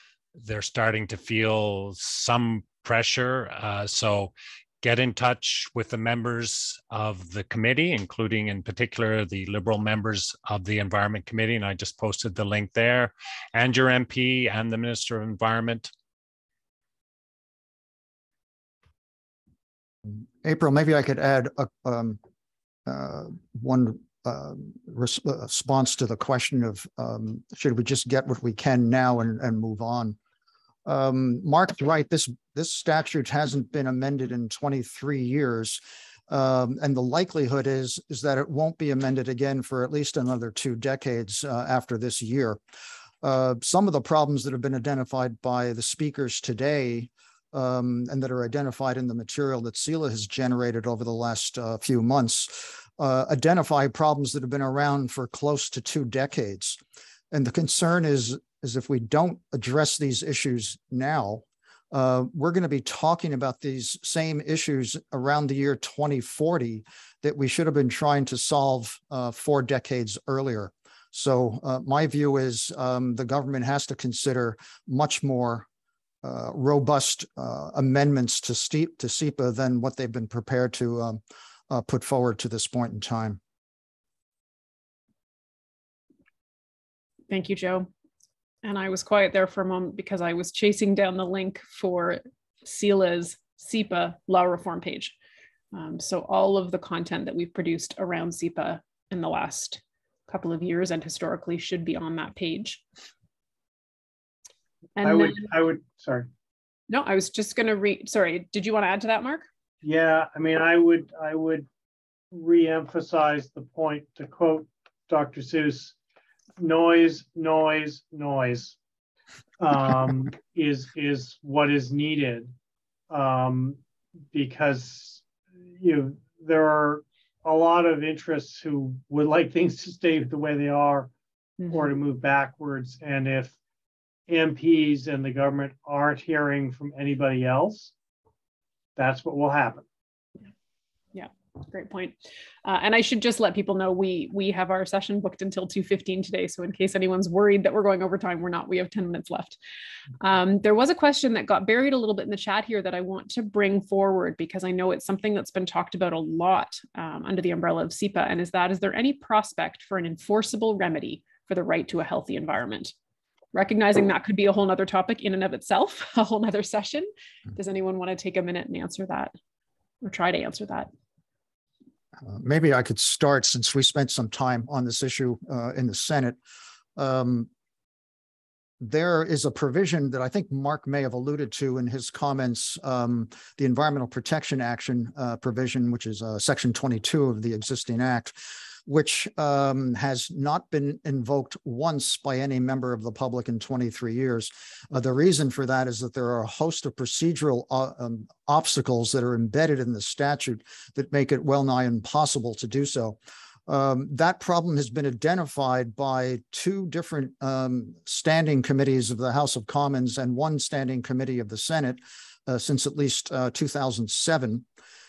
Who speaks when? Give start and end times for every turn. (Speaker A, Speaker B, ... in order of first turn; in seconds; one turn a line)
Speaker A: 0.3-15.9
Speaker B: 20.1-22.2
Speaker B: 22.9-30.2
Speaker B: 30.9-42.6
Speaker B: 43.2-56.8
Speaker B: 57.3-75.7
Speaker B: 76.2-83.4
Speaker C: 87.3-87.9
Speaker C: 88.6-95.1
Speaker C: 95.7-102.8
Speaker C: 105.0-105.5
Speaker D: 105.0-106.3
Speaker C: 106.9-109.5
Speaker D: 109.8-111.7
Speaker D: 112.3-115.9
Speaker D: 116.6-118.8
Speaker D: 119.6-122.5
Speaker D: 123.1-123.8
Speaker D: 124.3-125.2
Speaker D: 125.8-131.1
Speaker C: 131.6-131.9
Speaker D: 131.7-133.6
Speaker D: 134.3-137.9
Speaker D: 138.9-139.8
Speaker C: 141.1-149.6
Speaker C: 150.2-162.9
Speaker C: 163.5-169.3
Speaker C: 170.0-170.9
Speaker B: 172.2-176.4
Speaker B: 176.9-177.5
Speaker B: 178.8-214.6